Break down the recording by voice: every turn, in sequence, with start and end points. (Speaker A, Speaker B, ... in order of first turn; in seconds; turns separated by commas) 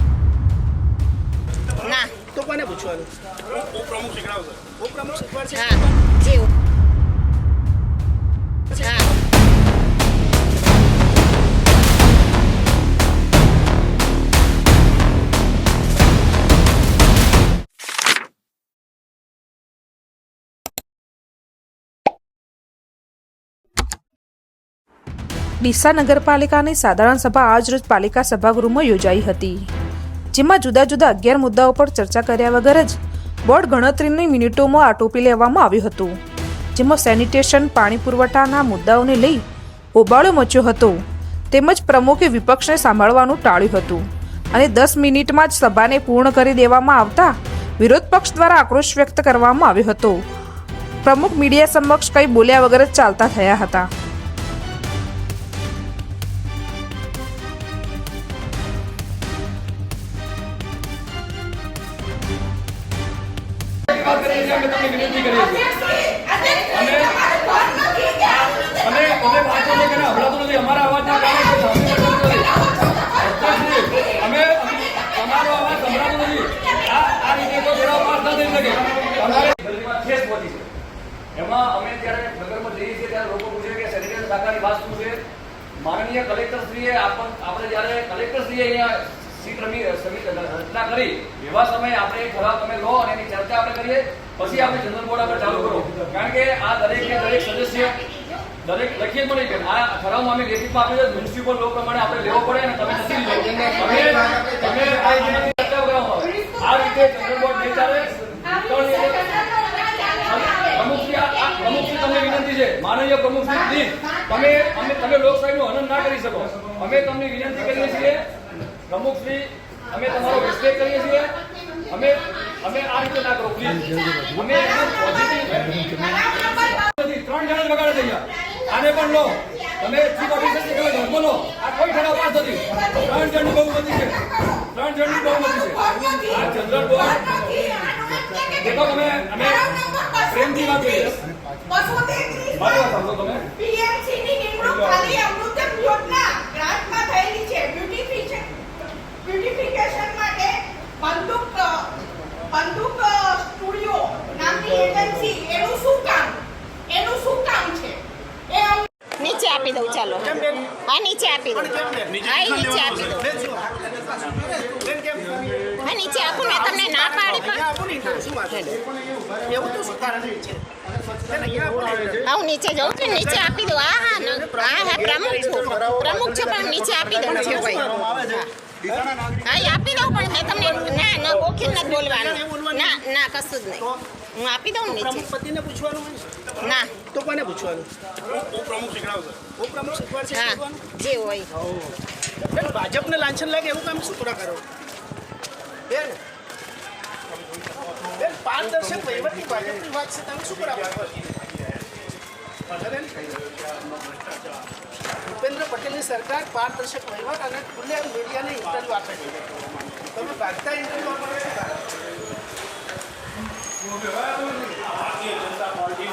Speaker A: 1.8-2.1, Speaker B: 2.2-5.9, Speaker A: 5.5-6.5, Speaker A: 8.8-9.1, Speaker C: 25.6-29.7, Speaker C: 30.3-36.2, Speaker C: 36.8-39.4, Speaker C: 40.0-41.0, Speaker C: 41.5-50.2, Speaker C: 51.0-53.9, Speaker D: 63.9-65.8, Speaker E: 65.7-68.3, Speaker D: 66.7-67.3, Speaker D: 68.2-80.7, Speaker D: 81.3-85.2, Speaker D: 85.8-98.0, Speaker D: 98.6-109.4, Speaker E: 109.3-110.7, Speaker D: 110.2-118.3, Speaker D: 118.9-137.3, Speaker E: 125.9-126.8, Speaker E: 132.8-133.1, Speaker E: 134.1-134.6, Speaker E: 135.8-136.5, Speaker E: 137.2-138.5, Speaker D: 138.4-141.2, Speaker E: 139.4-141.2, Speaker E: 141.7-142.7, Speaker D: 142.5-143.5, Speaker E: 143.6-151.9, Speaker D: 144.7-145.0, Speaker E: 152.5-158.9, Speaker A: 159.2-163.4, Speaker B: 160.2-160.7, Speaker B: 161.6-162.3, Speaker B: 163.1-165.8, Speaker A: 165.8-167.7, Speaker B: 166.3-168.8, Speaker A: 168.5-168.8, Speaker B: 169.4-172.3, Speaker A: 172.2-178.5, Speaker B: 173.0-178.3, Speaker B: 178.8-179.2, Speaker A: 179.3-185.3, Speaker B: 180.7-183.0, Speaker B: 184.9-190.8, Speaker A: 186.6-186.9, Speaker A: 190.3-191.5, Speaker B: 191.6-194.6, Speaker B: 195.9-196.2, Speaker B: 198.0-201.8, Speaker B: 202.7-204.4, Speaker B: 205.2-211.9, Speaker B: 214.2-214.9